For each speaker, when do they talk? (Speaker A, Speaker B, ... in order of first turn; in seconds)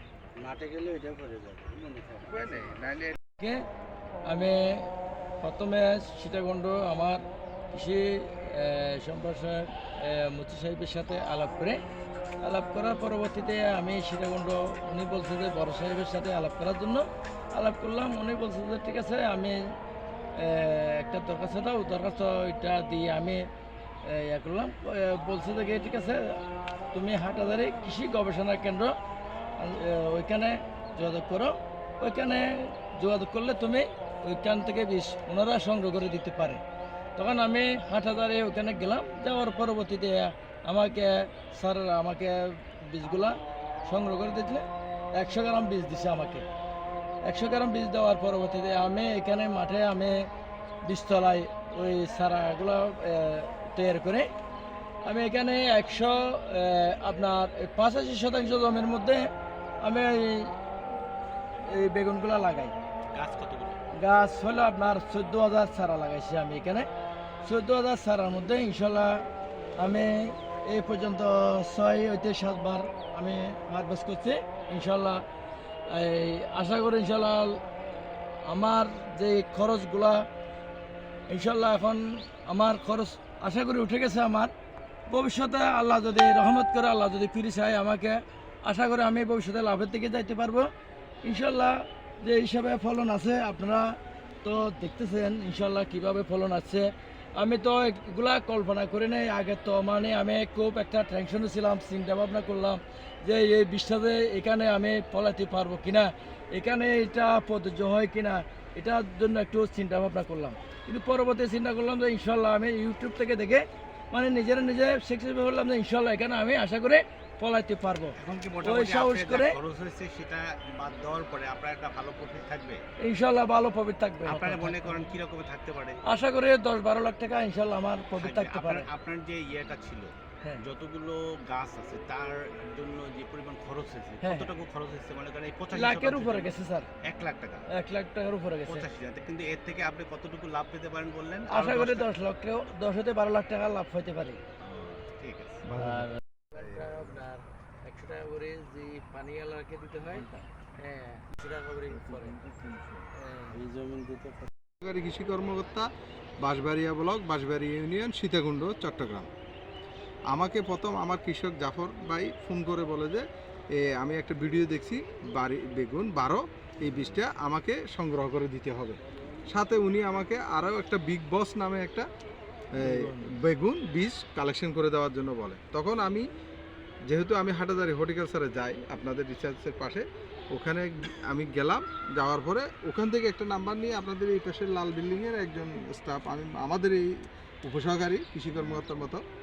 Speaker A: 0.3-2.8, 153.5-154.5
Speaker B: 2.2-3.2, 145.7-147.2, 154.8-155.9, 156.4-159.3, 160.3-163.2, 163.8-172.1, 172.8-176.3, 177.1-187.1, 187.6-189.2
Speaker C: 4.2-7.2, 7.7-11.8, 12.4-19.6, 20.4-23.4, 24.0-28.9, 29.6-36.6, 37.1-46.5, 47.2-50.3, 50.8-54.3, 55.0-60.5, 61.6-62.7, 63.9-66.9, 67.4-69.2, 69.8-75.2, 75.9-77.6, 78.4-80.2, 81.3-84.5, 85.1-90.7, 91.2-119.6, 123.0-125.1, 126.0-128.9, 134.2-134.5, 135.7-136.9, 137.7-138.8, 141.5-144.4, 145.8-152.4, 153.2-153.6, 172.9-173.2
Speaker D: 63.1-63.8, 118.2-122.8, 124.2-126.0, 128.2-137.7, 138.7-142.1, 144.7-145.6